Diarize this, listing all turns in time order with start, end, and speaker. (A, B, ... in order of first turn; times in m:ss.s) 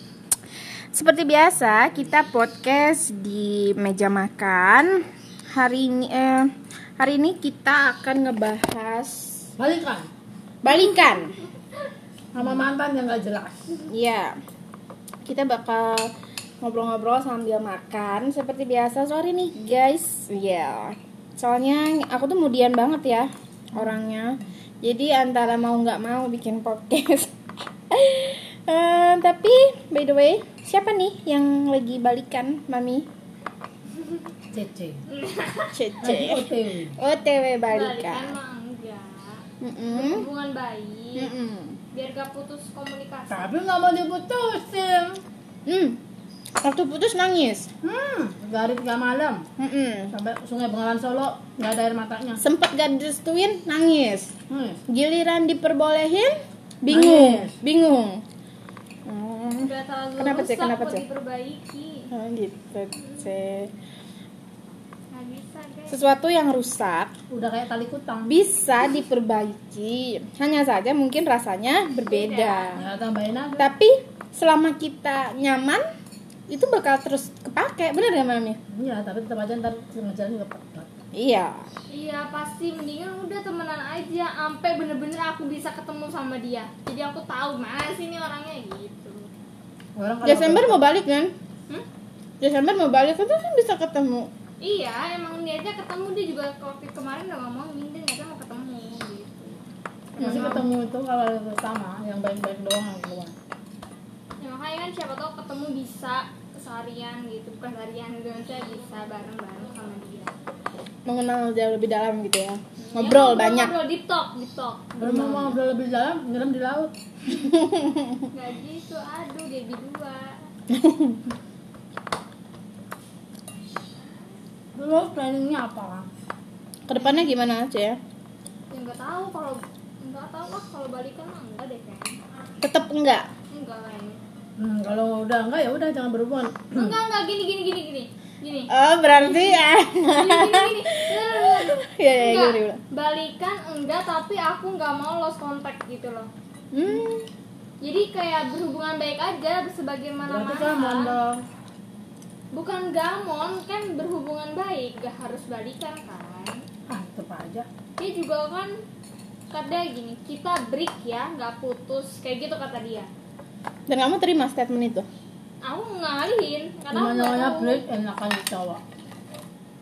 0:00.9-0:04.9 A
0:05.5-0:09.5 A
0:09.6-0:10.1 B
0:10.6-0:11.3 A
0:12.3-0:13.8 B
0:13.9-0:14.3 A
0:15.2-0:16.1 A
0:16.6-0:27.3 A
0:23.7-0:24.0 B
0:27.9-0:33.0 A
0:34.5-0:35.0 B
0:35.1-0:35.7 C
0:35.7-0:38.3 A
0:36.0-0:37.0 B
0:37.7-0:41.3 C
0:39.6-0:40.3 A
0:41.2-0:41.8 A
0:41.9-0:43.5 C
0:43.3-0:45.2 B
0:45.6-0:46.0 A
0:46.6-0:47.7 A
0:47.8-0:49.4 B
0:49.6-0:50.1 A
0:50.1-0:52.4 B
0:52.4-0:54.3 A
0:54.5-0:54.8 B
0:54.9-0:58.2 A
0:56.9-0:57.6 B
0:59.0-1:01.0 A
0:59.6-1:02.0 C
1:02.1-1:03.7 A
1:03.0-1:03.3 C
1:05.1-1:06.0 C
1:05.9-1:07.1 A
1:07.3-1:08.4 B
1:08.3-1:12.8 A
1:12.0-1:12.8 C
1:12.7-1:13.7 B
1:13.6-1:15.8 A
1:16.5-1:18.6 A
1:18.7-1:20.9 B
1:21.1-1:21.7 A
1:21.9-1:29.3 C
1:30.0-1:30.8 B
1:30.2-1:31.3 A
1:32.4-1:34.3 A
1:34.6-1:39.6 C
1:40.1-1:40.6 C
1:40.2-1:40.6 A
1:40.2-1:43.3 B
1:44.4-1:50.3 C
1:51.0-1:53.8 A
1:52.9-1:55.0 C
1:54.9-1:56.9 B
1:55.0-1:55.5 A
1:57.3-1:58.2 A
1:58.3-2:00.4 C
2:00.7-2:01.2 A
2:04.7-2:06.1 B
2:06.9-2:08.0 A
2:07.0-2:07.3 C
2:08.7-2:12.2 C
2:12.6-2:13.2 A
2:13.5-2:14.2 C
2:14.6-2:17.0 B
2:16.7-2:18.7 C
2:18.7-2:22.8 A
2:19.2-2:26.3 C
2:26.7-2:27.3 A
2:27.8-2:31.2 C
2:30.2-2:31.4 B
2:32.5-2:36.6 C
2:36.9-2:37.7 B
2:38.0-2:38.7 C
2:39.5-2:43.1 C
2:43.9-2:45.1 A
2:45.6-2:47.8 C
2:46.9-2:48.8 B